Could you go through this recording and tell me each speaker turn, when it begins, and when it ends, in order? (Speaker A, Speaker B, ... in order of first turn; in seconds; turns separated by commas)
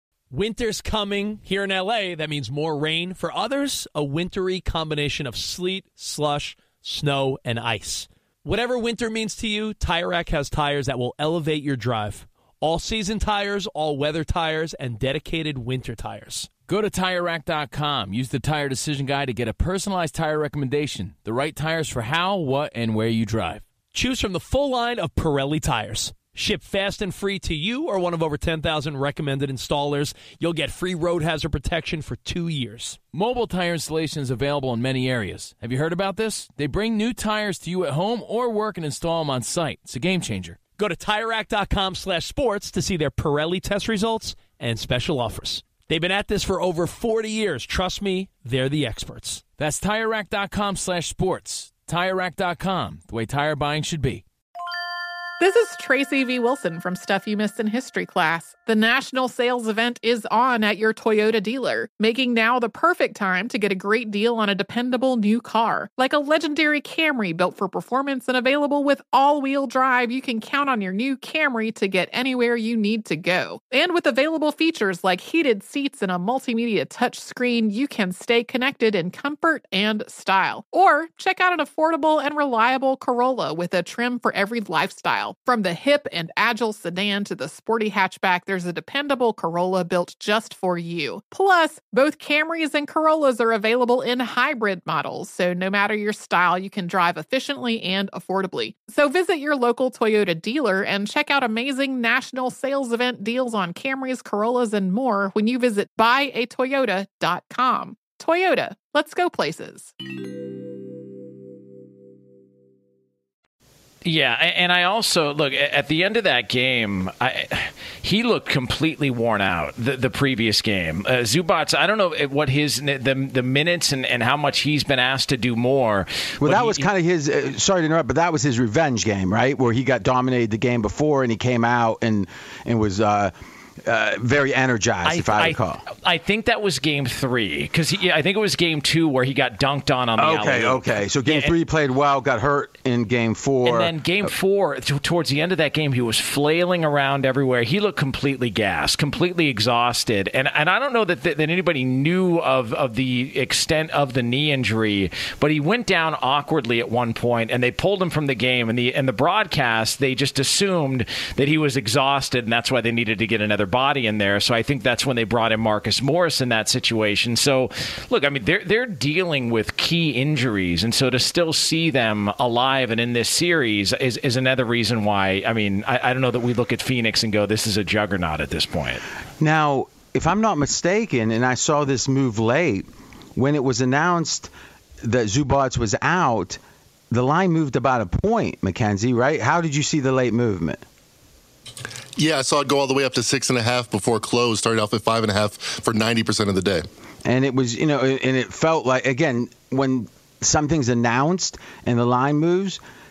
Speaker A: 0.3-16.5, Speaker B: 16.7-23.6, Speaker A: 23.9-33.0, Speaker B: 33.1-40.6, Speaker A: 40.8-49.4, Speaker B: 49.6-54.2, Speaker C: 55.4-109.9, Speaker D: 114.0-126.8, Speaker E: 126.4-133.3, Speaker E: 133.8-135.8, Speaker D: 135.0-141.5, Speaker E: 140.2-143.9, Speaker D: 143.6-179.0, Speaker E: 179.4-184.5, Speaker E: 185.0-186.6, Speaker E: 187.1-190.8, Speaker F: 192.2-196.8, Speaker E: 197.2-202.8